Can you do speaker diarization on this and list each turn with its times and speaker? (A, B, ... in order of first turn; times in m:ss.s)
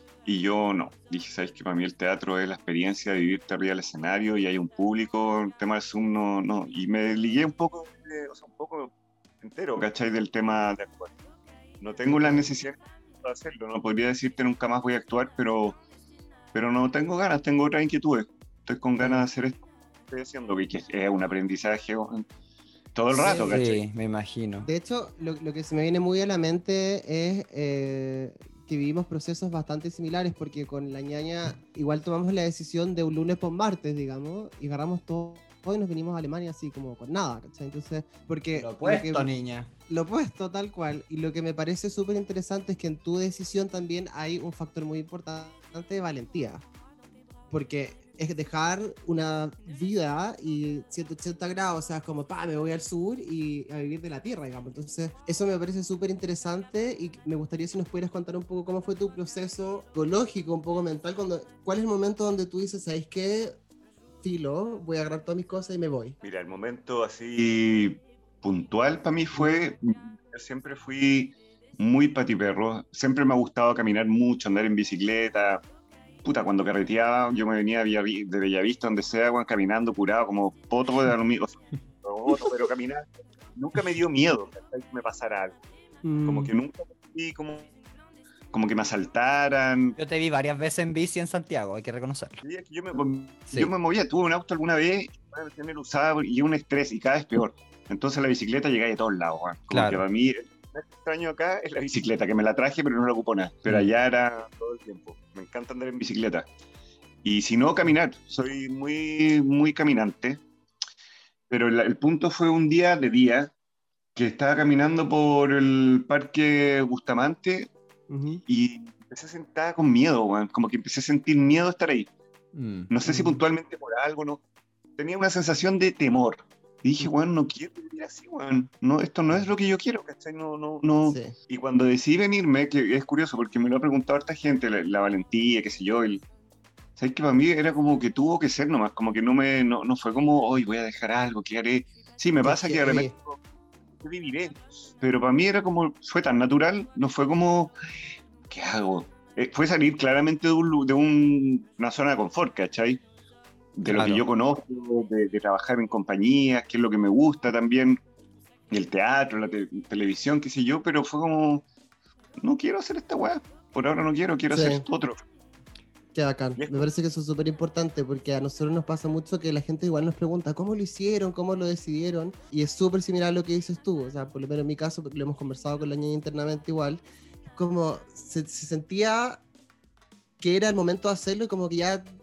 0:00.2-0:11.2 A
0:11.8-0:15.8 A
0:12.1-0:12.5 B
0:16.5-0:22.2 A
0:19.0-0:19.3 B
0:23.0-0:23.8 A
0:23.1-0:23.6 B
0:23.4-0:24.7 C
0:24.6-0:39.3 B
0:38.6-0:39.7 C
0:39.9-0:46.6 B
0:47.5-1:03.6 B
1:04.2-1:06.2 B
1:06.2-1:15.6 A
1:16.2-1:25.6 A
1:26.0-1:26.5 B
1:26.2-1:27.7 A
1:28.5-1:30.0 A
1:30.0-1:32.4 C
1:32.4-1:46.5 A
1:39.7-1:40.0 C
1:43.7-1:43.9 C
1:47.2-1:50.4 A
1:51.5-1:53.5 A
1:54.2-1:57.7 A
1:58.1-1:58.4 B
1:58.5-2:02.1 A
2:02.5-2:02.9 C
2:02.9-2:04.4 A
2:03.0-2:03.4 B
2:05.0-2:16.2 A
2:11.1-2:11.4 B
2:17.0-2:23.4 A
2:22.4-2:23.1 B
2:24.0-2:27.7 A
2:28.5-2:33.0 A
2:33.8-2:38.0 A
2:33.9-2:34.2 C
2:38.7-2:41.6 A
2:42.4-2:45.2 A
2:44.5-2:44.8 B
2:46.1-2:59.4 B
2:46.6-2:46.8 A
3:00.4-3:02.0 B